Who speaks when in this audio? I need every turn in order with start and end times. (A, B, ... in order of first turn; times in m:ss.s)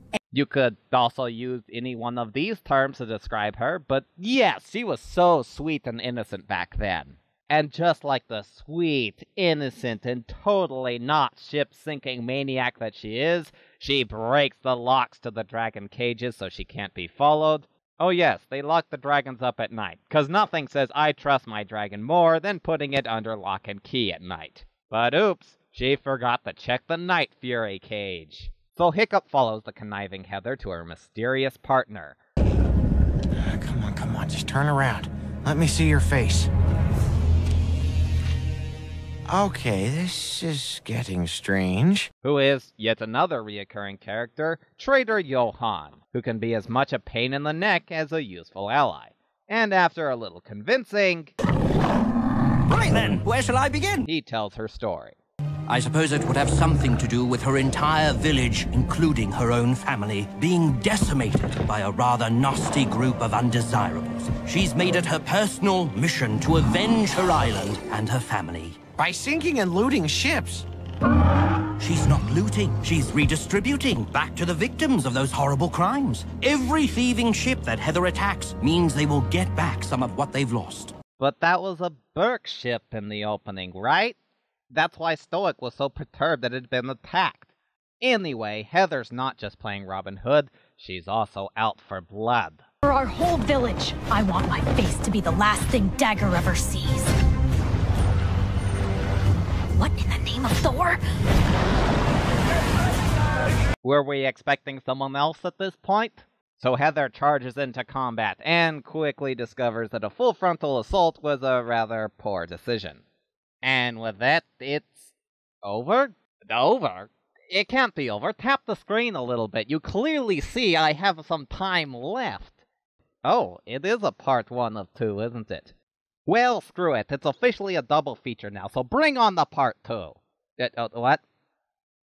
0:00.3-0:32.2 A
0:33.4-0:36.5 B
0:39.3-0:42.1 B
0:42.2-0:51.3 A
0:52.7-0:54.1 C
0:54.0-0:55.2 A
0:55.7-1:08.8 C
1:09.0-1:10.7 B
1:11.8-1:21.0 C
1:21.2-1:24.2 A
1:24.7-1:27.5 A
1:28.0-1:32.6 A
1:32.8-1:37.1 D
1:39.7-1:41.0 D
1:43.8-1:53.0 A
1:53.6-1:55.1 A
1:55.6-2:02.6 A
2:03.2-2:05.7 A
2:06.3-2:11.2 A